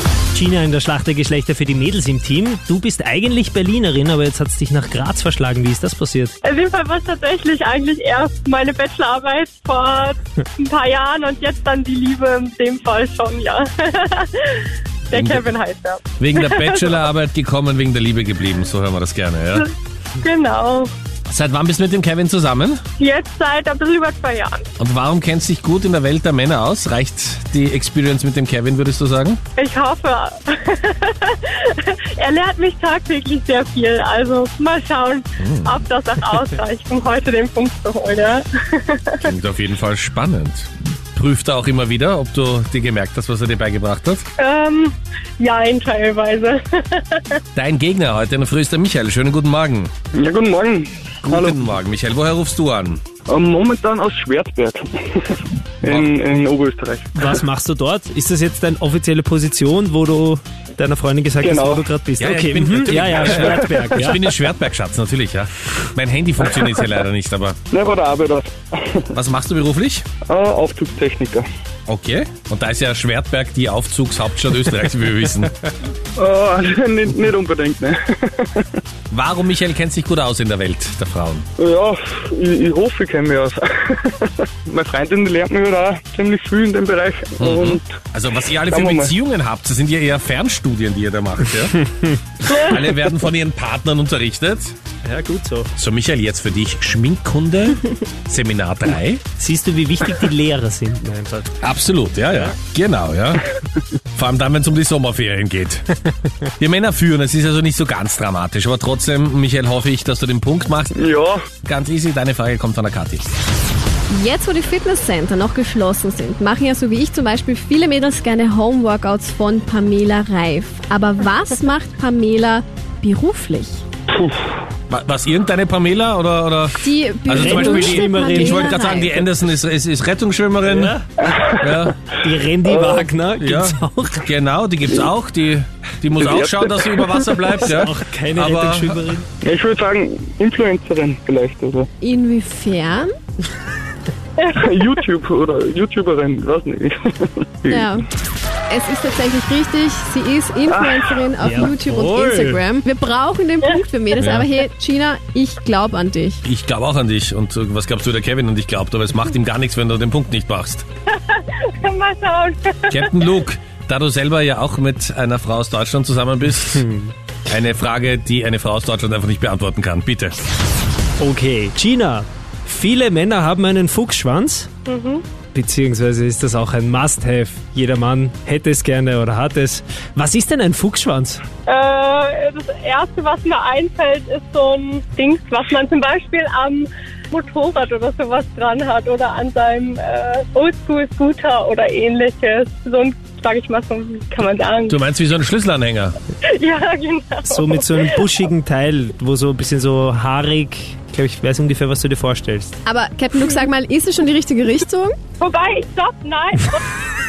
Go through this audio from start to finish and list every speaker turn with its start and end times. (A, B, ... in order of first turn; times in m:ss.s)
0:00.3-0:06.3 A
0:06.4-0:17.0 B
0:15.1-0:15.5 C
0:16.2-0:19.7 C
0:19.5-0:20.9 B
0:21.3-0:22.8 C
0:23.0-0:24.6 B
0:24.8-0:29.4 C
0:29.6-0:39.3 B
0:35.4-0:35.8 C
0:39.2-0:44.3 C
0:44.4-0:47.4 B
0:47.5-0:49.9 C
0:50.1-0:51.6 D
0:51.2-0:53.0 C
0:53.3-0:57.4 D
0:55.8-0:56.1 C
0:57.2-1:04.2 A
1:01.4-1:01.9 D
1:02.2-1:07.6 C
1:07.7-1:09.1 D
1:09.1-1:10.0 C
1:10.3-1:11.5 D
1:11.9-1:15.6 C
1:16.2-1:18.8 D
1:19.1-1:21.4 C
1:21.6-1:27.8 D
1:27.4-1:31.8 C
1:28.7-1:29.1 D
1:32.4-1:34.7 C
1:32.5-1:32.7 B
1:35.0-1:35.7 A
1:35.8-1:39.2 C
1:39.4-1:41.5 A
1:41.6-1:43.5 C
1:44.1-1:45.9 C
1:46.6-1:51.0 C
1:50.9-1:51.4 D
1:51.6-1:53.3 C
1:54.1-2:03.8 E
2:04.1-2:04.5 D
2:04.9-2:11.0 C
2:06.8-2:09.2 E
2:07.3-2:09.1 A
2:10.6-2:11.1 A
2:11.2-2:11.7 D
2:11.6-2:12.0 C
2:12.2-2:14.3 A
2:12.6-2:13.1 D
2:13.4-2:19.1 C
2:16.2-2:17.4 D
2:17.6-2:19.3 A
2:19.4-2:21.9 D
2:22.0-2:23.1 E
2:24.4-2:25.0 B
2:24.5-2:27.9 D
2:27.7-2:28.0 E
2:28.7-2:36.4 E
2:30.7-2:31.1 D
2:31.4-2:32.6 A
2:34.2-2:34.5 C
2:36.4-2:40.8 C
2:41.3-2:43.3 B
2:42.9-2:46.8 C
2:46.7-2:47.1 A
2:47.5-2:50.4 C
2:51.2-2:54.7 A
2:54.9-2:55.2 B
2:55.5-3:01.4 A
3:01.7-3:15.0 B
3:14.9-3:16.2 C
3:16.5-3:18.2 B
3:17.4-3:22.8 A
3:22.8-3:25.2 E
3:25.4-3:26.8 B